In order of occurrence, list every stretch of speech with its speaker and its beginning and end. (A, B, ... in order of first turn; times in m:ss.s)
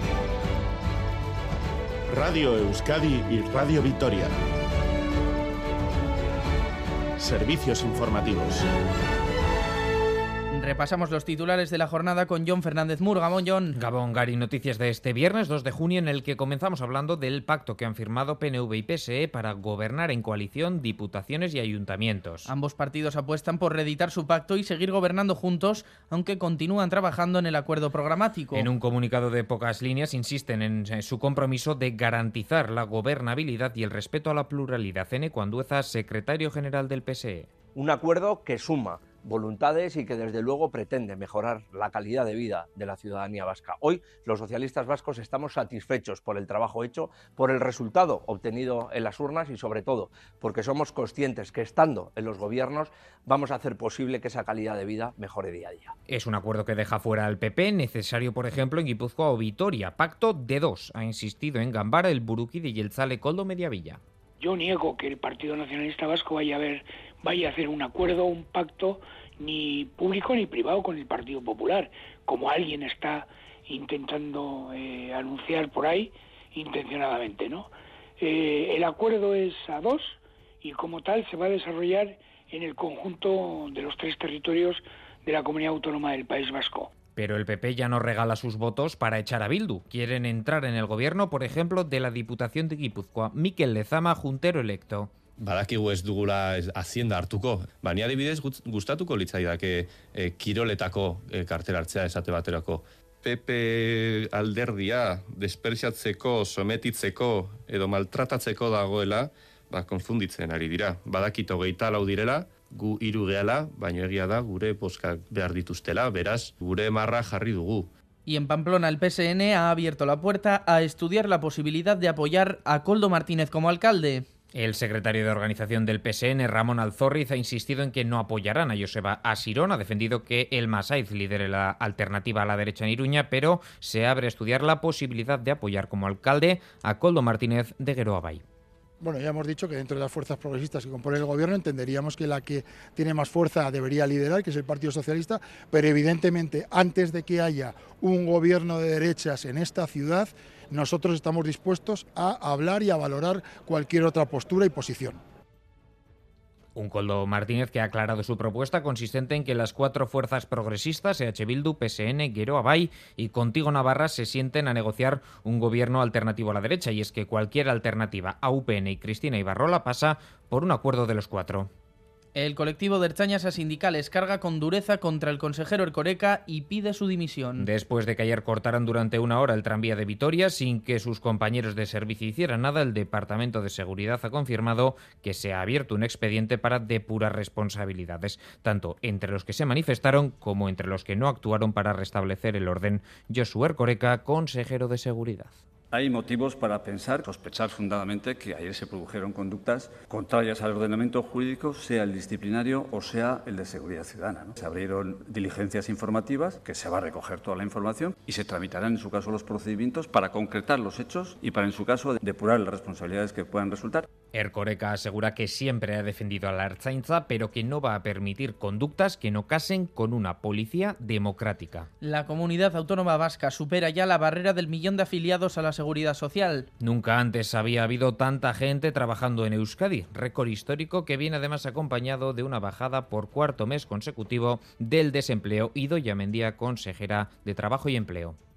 0:02.1-0:04.3 A
0:07.2-0:08.6 A
0:10.5-0:13.8 B
0:13.8-0:22.5 C
0:22.4-0:28.7 B
0:28.5-0:37.5 C
0:37.7-0:55.9 D
0:56.1-1:04.0 C
1:04.4-1:26.9 E
1:27.2-1:35.1 C
1:35.4-1:57.9 F
1:58.2-2:04.2 B
2:04.5-2:18.4 C
2:19.0-2:35.2 G
2:36.8-2:51.7 C
2:52.3-2:57.7 B
2:57.6-3:15.5 C
3:15.9-3:34.1 H
3:34.3-3:41.9 C
3:42.0-3:46.7 B
3:46.8-3:58.4 C